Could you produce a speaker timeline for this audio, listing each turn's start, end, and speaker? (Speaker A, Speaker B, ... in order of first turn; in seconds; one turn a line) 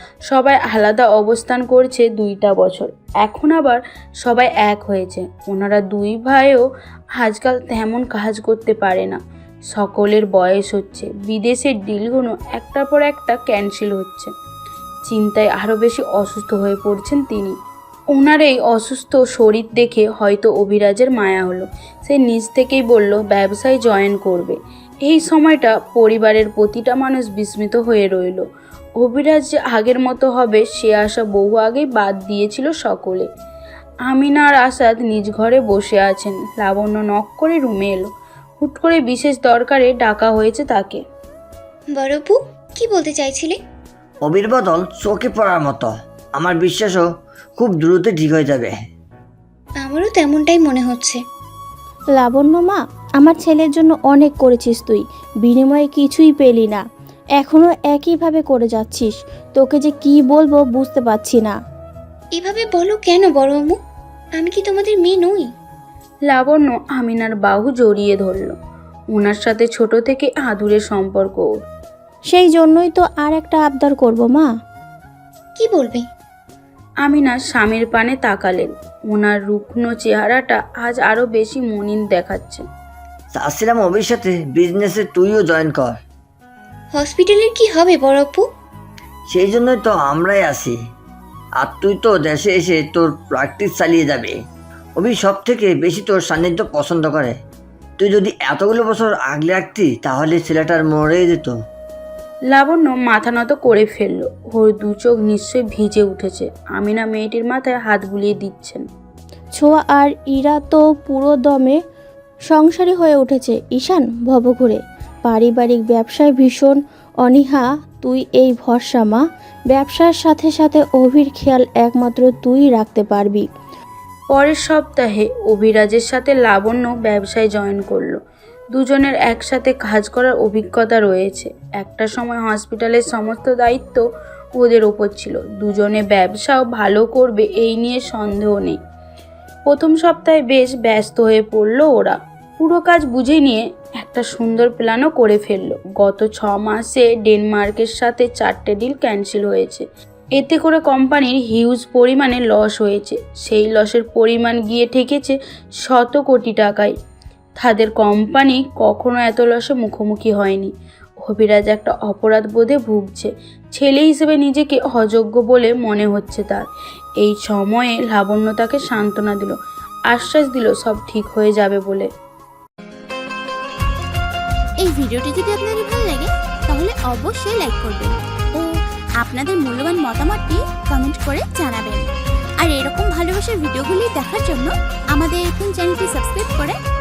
Speaker A: 0.3-6.6
Speaker A: 7.2-9.2
Speaker A: 9.7-14.3
Speaker A: 15.1-17.5
Speaker A: 18.1-28.4
Speaker A: 29.0-33.3
Speaker A: 34.1-38.1
Speaker A: 38.6-41.0
Speaker B: 41.9-43.6
Speaker C: 44.2-47.0
Speaker C: 47.6-48.7
Speaker B: 49.8-51.2
Speaker D: 52.1-56.8
Speaker D: 57.4-61.6
Speaker B: 62.4-63.8
Speaker B: 64.4-65.5
Speaker A: 66.2-68.5
Speaker A: 69.1-71.5
Speaker D: 72.3-74.5
Speaker B: 75.6-76.1
Speaker A: 77.0-82.7
Speaker C: 83.3-86.0
Speaker B: 86.9-88.5
Speaker C: 89.3-90.7
Speaker C: 91.6-94.3
Speaker C: 95.0-97.4
Speaker C: 98.0-101.5
Speaker A: 102.5-108.8
Speaker D: 109.6-111.8
Speaker D: 112.5-123.5
Speaker A: 124.3-128.2
Speaker A: 128.7-134.0
Speaker A: 134.6-138.8
Speaker A: 139.7-149.8
Speaker A: 150.4-156.9
Speaker A: 157.6-160.7
Speaker A: 161.2-166.7
Speaker A: 167.2-169.6
Speaker A: 170.1-172.1
Speaker E: 174.8-178.7
Speaker E: 179.2-182.1
Speaker E: 182.6-186.8